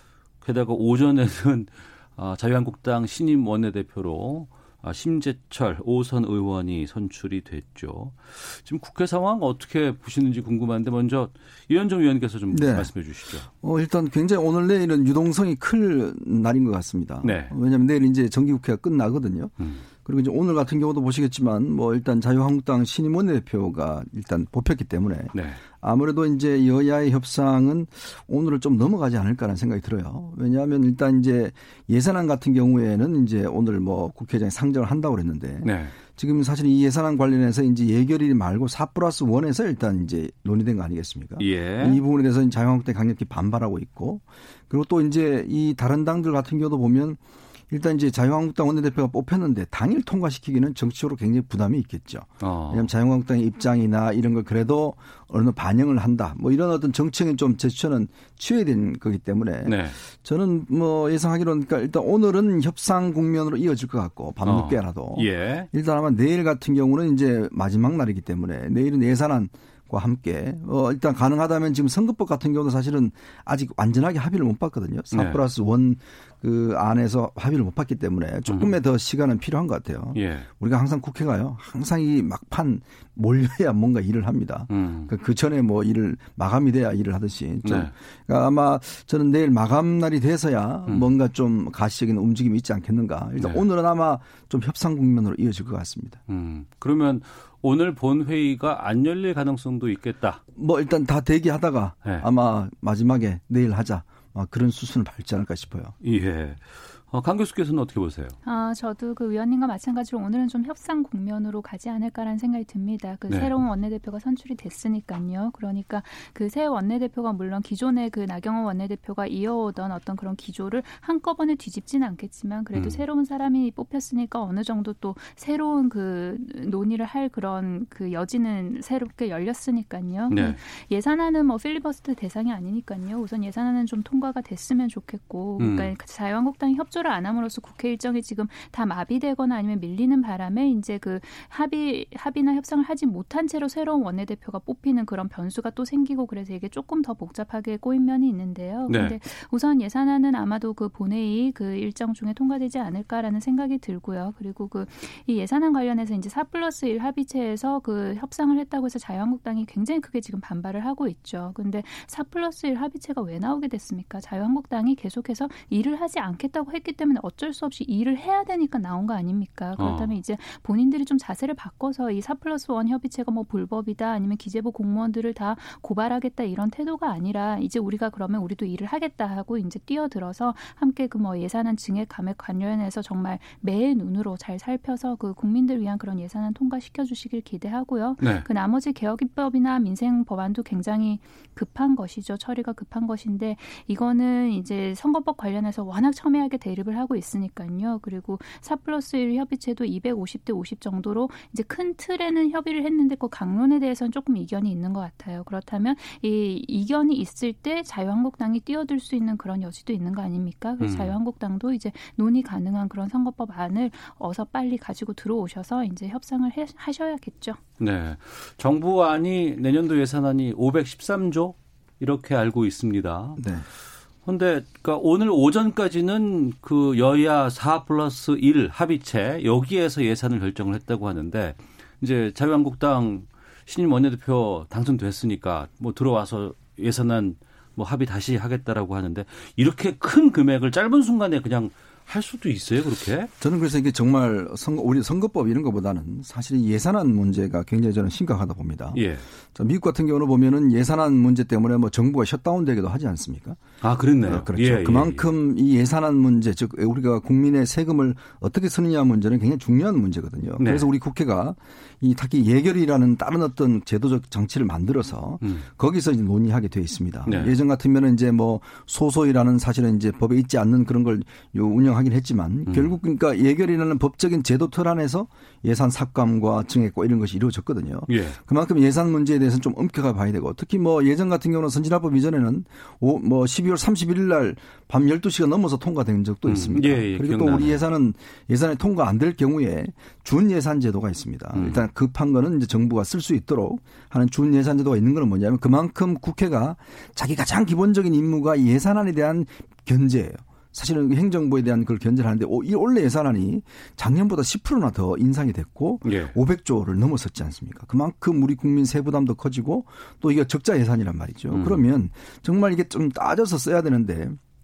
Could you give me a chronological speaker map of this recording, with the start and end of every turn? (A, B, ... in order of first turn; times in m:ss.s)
0:00.4-0:13.5 A
0:12.5-0:12.9 B
0:13.6-0:19.5 B
0:17.2-0:17.5 A
0:20.0-1:36.2 B
0:25.3-0:25.6 A
0:35.6-0:36.0 A
0:41.4-0:42.0 A
0:52.4-0:52.9 A
0:59.6-1:00.0 A
1:04.4-1:05.7 A
1:15.1-1:15.4 A
1:18.5-1:18.8 A
1:20.2-1:20.5 A
1:24.7-1:25.1 A
1:27.6-1:27.9 A
1:33.4-1:33.6 A
1:36.3-1:40.4 A
1:40.6-1:46.0 B
1:46.0-1:48.4 A
1:48.4-3:37.6 C
1:53.3-1:53.6 A
2:02.7-2:03.0 A
2:10.3-2:10.6 A
2:15.6-2:15.9 A
2:28.9-2:29.2 A
2:49.8-2:50.2 A
3:08.2-3:08.5 A
3:30.8-3:31.2 A
3:37.8-3:43.4 A
3:43.4-3:43.7 B
3:44.2-4:03.3 A
4:03.4-4:09.0 B
4:08.9-4:09.2 A
4:09.6-4:13.6 B
4:13.8-4:15.3 A
4:14.3-5:14.4 B
4:20.6-4:20.9 A
4:27.3-4:27.5 A
4:32.7-4:33.0 A
4:38.1-4:38.4 A
4:46.5-4:47.8 A
4:51.5-4:51.8 A
5:06.0-5:06.4 A
5:11.5-5:11.8 A